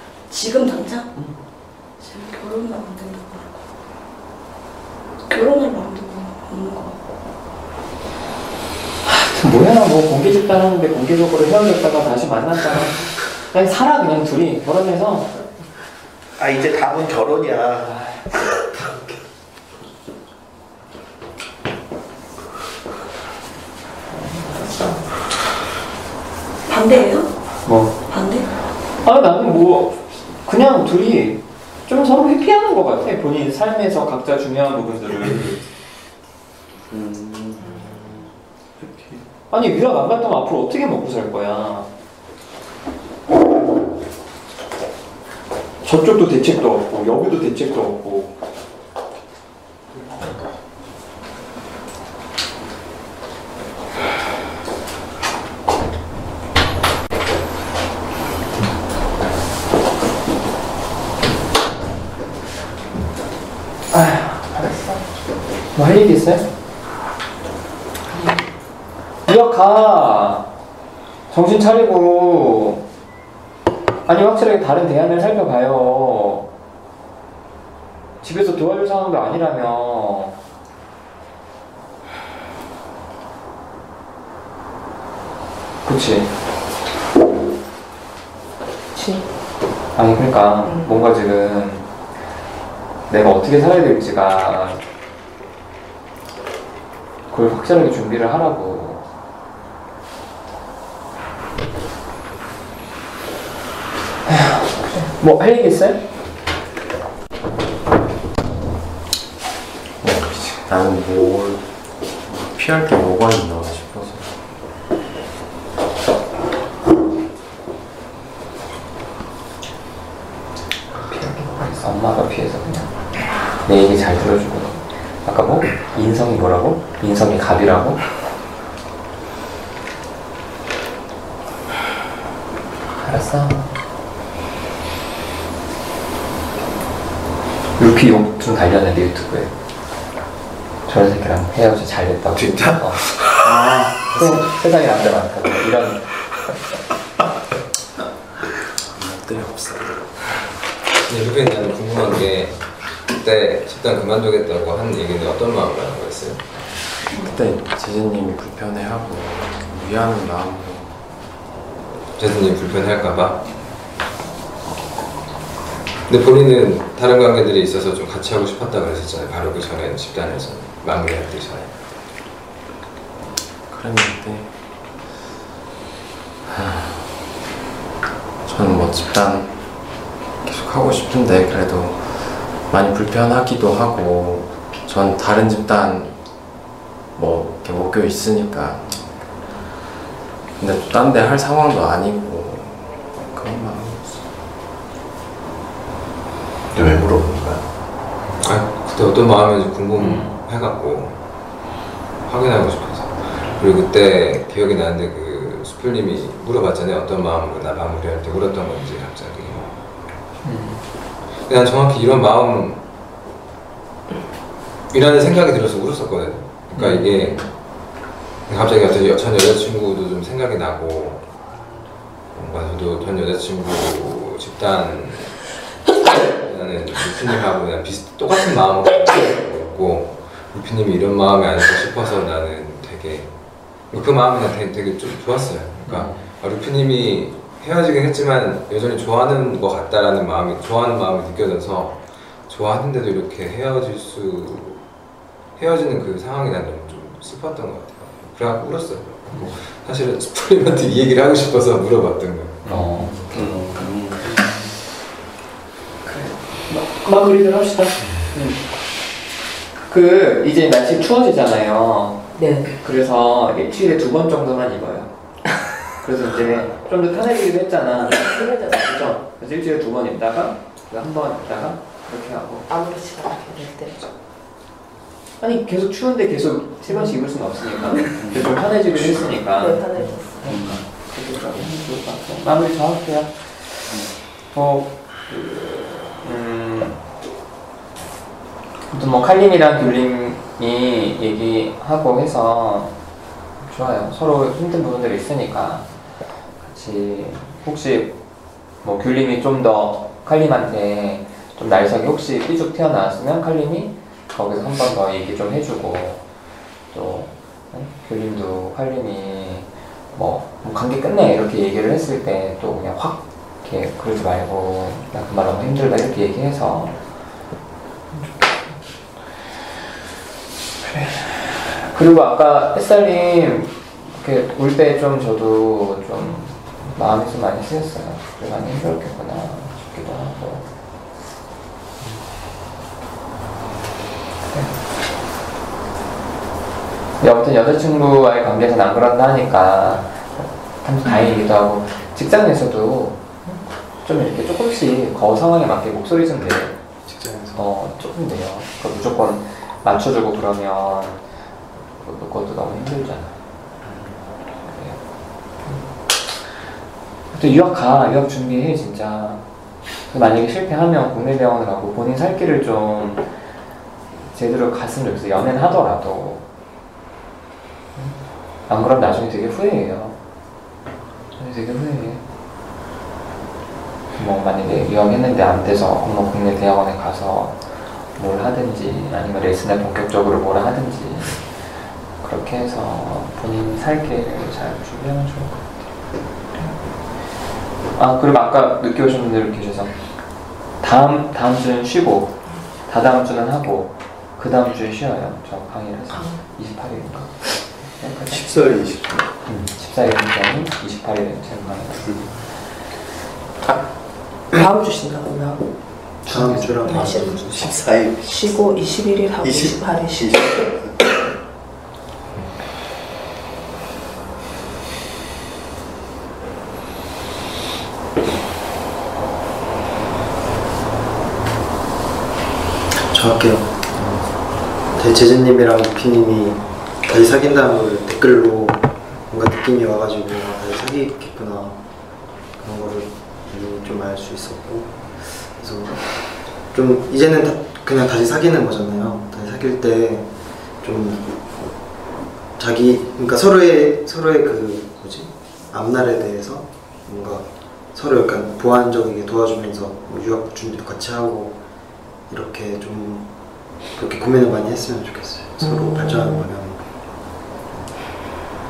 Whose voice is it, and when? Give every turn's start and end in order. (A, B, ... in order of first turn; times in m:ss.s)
0:00.3-0:01.1 A
0:02.0-0:03.7 A
0:05.3-0:07.0 A
0:09.0-0:15.4 B
0:16.4-0:17.9 C
0:24.1-0:25.1 B
0:26.7-0:27.4 A
0:27.7-0:28.0 B
0:28.1-0:28.5 A
0:29.0-0:35.6 B
0:36.9-0:38.2 D
0:38.8-0:39.2 D
0:39.5-0:41.9 B
0:45.8-0:48.3 B
1:03.9-1:05.0 B
1:05.8-1:06.5 B
1:09.3-1:10.5 B
1:11.3-1:12.8 B
1:14.1-1:16.5 B
1:18.2-1:20.4 B
1:25.8-1:26.3 B
1:28.9-1:29.3 E
1:30.0-1:31.8 B
1:30.6-1:31.0 E
1:33.1-1:34.8 B
1:37.3-1:39.0 B
1:44.3-1:46.0 B
1:50.0-1:51.6 F
1:52.3-1:54.3 F
2:00.9-2:08.1 B
2:13.0-2:13.7 B
2:17.8-2:19.5 B
2:20.9-2:26.1 B
2:22.4-2:23.3 C
2:29.0-2:30.3 F
2:31.0-2:36.4 G
2:37.1-2:37.4 A
2:37.2-2:41.0 F
2:42.2-2:43.4 G
2:46.1-2:51.7 G
2:53.7-2:54.5 F
2:56.5-2:57.1 F
2:58.4-2:59.9 F
3:00.4-3:06.2 F
3:07.2-3:08.9 F
3:10.6-3:14.2 F
3:16.7-3:17.6 C
3:18.4-3:21.2 G
3:20.0-3:20.4 B
3:22.3-3:29.8 G
3:30.4-3:30.8 B
3:31.4-3:32.8 G
3:34.9-3:37.7 G
3:36.8-3:37.4 B
3:38.5-3:41.2 G
3:42.3-3:45.6 G
3:46.1-4:04.9 G
3:55.8-3:56.2 B
4:05.5-4:12.9 G
4:12.7-4:14.5 B
4:13.3-4:14.4 D
4:16.0-4:18.6 B
4:19.9-4:25.1 B
4:22.4-4:22.7 E
4:26.0-4:32.7 B
4:28.1-4:29.2 E
4:32.7-4:34.0 E
4:35.4-4:39.8 B
4:38.2-4:39.4 D
4:39.6-4:40.6 E
4:40.0-4:40.9 D
4:40.4-4:44.0 B
4:43.9-4:44.2 D
4:44.5-4:47.0 B
4:48.9-4:52.9 B
4:53.6-4:55.9 B
4:56.6-4:58.2 B
4:58.8-5:06.2 B
5:06.9-5:17.0 B
5:18.1-5:18.8 B
5:20.8-5:30.6 B
5:34.5-5:34.7 B
5:37.2-5:46.8 B
5:47.1-5:47.6 H
5:47.6-5:51.3 B
5:52.0-5:53.4 B
5:53.8-5:54.2 H
5:54.6-5:55.0 B
5:57.3-5:59.4 B
6:00.0-6:03.3 B
6:04.3-6:06.4 B
6:08.0-6:10.2 B
6:11.4-6:12.2 B
6:14.1-6:21.6 B
6:22.2-6:25.7 B
6:28.0-6:38.8 B
6:38.3-6:39.3 D
6:39.4-6:42.4 B
6:43.6-6:43.9 E
6:44.5-6:45.7 E
6:46.3-6:46.8 B
6:46.3-6:47.8 H
6:46.8-6:48.4 D
6:46.8-6:50.6 E
6:49.4-6:51.0 D
7:03.1-7:11.8 H
7:12.6-7:21.4 H
7:22.6-7:31.6 H
7:32.3-7:33.3 H
7:33.8-7:36.8 H